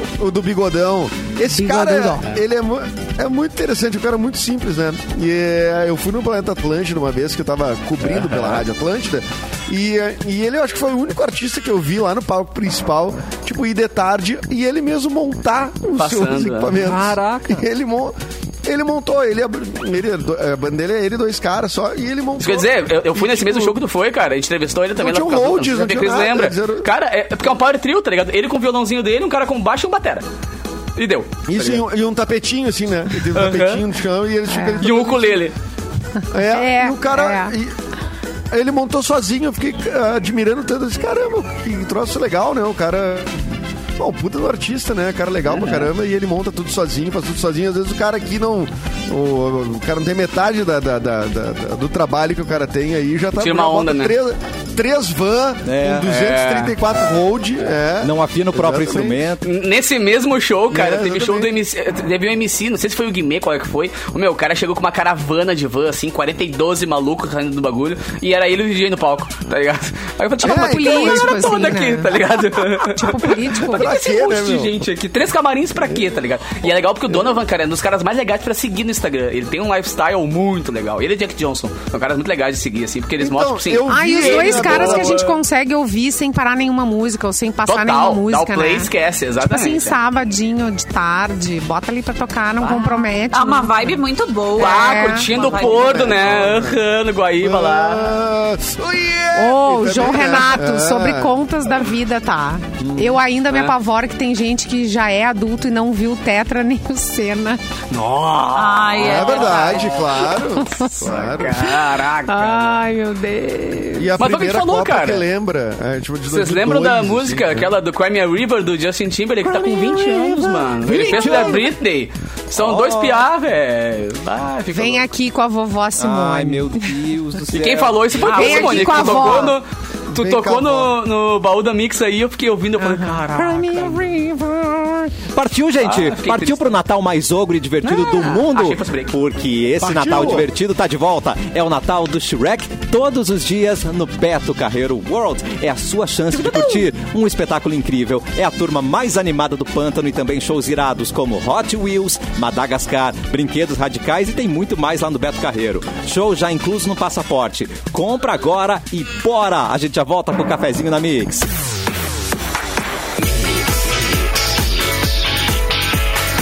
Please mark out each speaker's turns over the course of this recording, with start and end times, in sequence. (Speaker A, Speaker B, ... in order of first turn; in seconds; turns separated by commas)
Speaker A: 0.2-23.8, Speaker B: 1.5-2.4, Speaker C: 8.1-8.6, Speaker C: 16.0-16.8, Speaker D: 16.8-17.6, Speaker C: 22.4-30.2, Speaker A: 25.0-26.9, Speaker C: 31.0-31.9, Speaker A: 31.5-35.4, Speaker C: 33.2-33.8, Speaker B: 34.5-34.9, Speaker C: 34.8-35.5, Speaker A: 36.3-37.7, Speaker B: 36.5-37.5, Speaker A: 38.5-43.4, Speaker A: 44.0-59.3, Speaker C: 45.5-45.9, Speaker C: 53.4-54.2, Speaker D: 55.6-56.2, Speaker C: 56.0-56.8, Speaker D: 58.0-59.5, Speaker C: 59.4-85.4, Speaker A: 60.7-61.5, Speaker A: 70.4-71.8, Speaker B: 70.4-74.0, Speaker A: 73.7-74.7, Speaker A: 77.1-77.4, Speaker A: 83.2-85.3, Speaker B: 83.9-94.0, Speaker C: 87.7-90.0, Speaker E: 93.3-96.2, Speaker C: 94.5-98.1, Speaker B: 94.6-95.3, Speaker A: 95.3-96.8, Speaker A: 97.4-101.3, Speaker B: 99.3-107.6, Speaker D: 102.8-103.2, Speaker C: 107.9-112.8, Speaker E: 108.5-109.9, Speaker A: 109.0-111.7, Speaker B: 110.5-110.9, Speaker B: 112.3-114.1, Speaker A: 114.0-117.7, Speaker C: 114.2-115.2, Speaker C: 116.3-125.1, Speaker D: 119.9-121.7, Speaker B: 120.9-121.6, Speaker D: 122.5-123.2, Speaker B: 124.7-126.9, Speaker D: 126.0-128.8, Speaker C: 127.5-133.2, Speaker B: 128.2-129.6, Speaker E: 128.3-129.1, Speaker A: 130.1-130.9, Speaker B: 132.8-134.1, Speaker D: 133.2-161.5, Speaker C: 135.8-136.7, Speaker C: 137.8-139.2, Speaker A: 139.8-140.5, Speaker C: 146.3-146.9